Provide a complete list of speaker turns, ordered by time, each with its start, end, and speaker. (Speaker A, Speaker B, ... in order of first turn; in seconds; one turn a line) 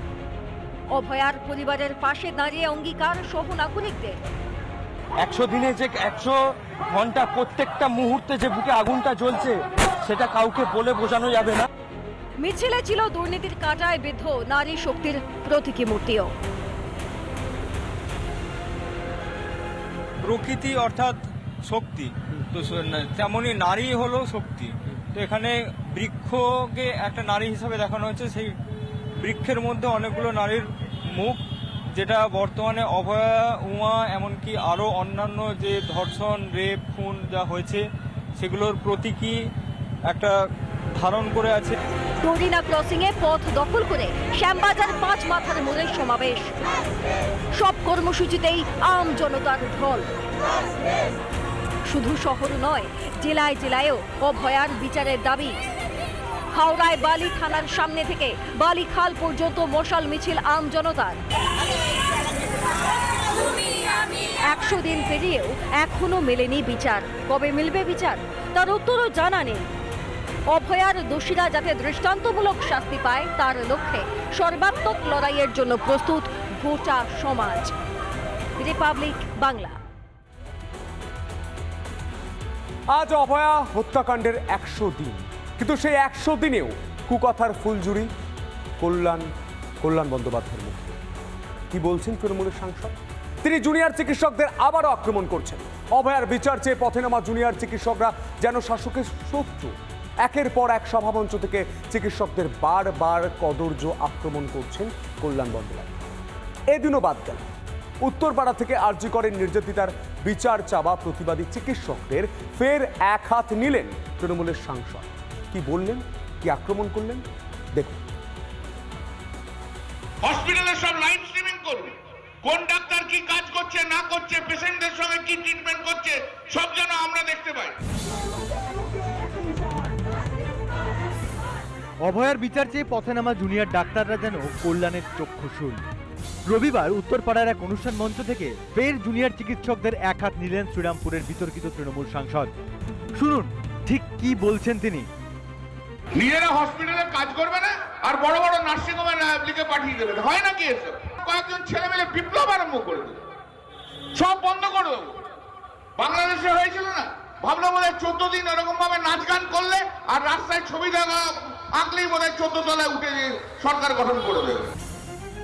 Speaker A: 0.9-4.2
Speaker B: 5.2-11.7
Speaker A: 12.4-16.3
Speaker C: 20.2-28.5
Speaker C: 29.2-31.4
Speaker C: 31.9-37.8
Speaker C: 38.4-39.4
Speaker C: 40.1-40.4
Speaker C: 41.0-41.8
Speaker A: 42.2-46.5
Speaker A: 47.5-50.1
Speaker A: 51.9-55.6
Speaker A: 56.5-61.2
Speaker A: 64.5-69.7
Speaker A: 70.5-77.7
Speaker A: 78.6-79.8
Speaker D: 83.0-88.1
Speaker D: 88.8-89.3
Speaker D: 89.8-91.0
Speaker D: 91.7-99.7
Speaker D: 100.2-106.0
Speaker D: 106.7-107.5
Speaker D: 108.0-117.2
Speaker D: 117.8-118.0
Speaker E: 120.2-127.8
Speaker F: 132.1-135.8
Speaker F: 136.5-142.5
Speaker F: 143.2-145.1
Speaker E: 146.2-153.2
Speaker E: 154.2-155.1
Speaker E: 156.0-164.7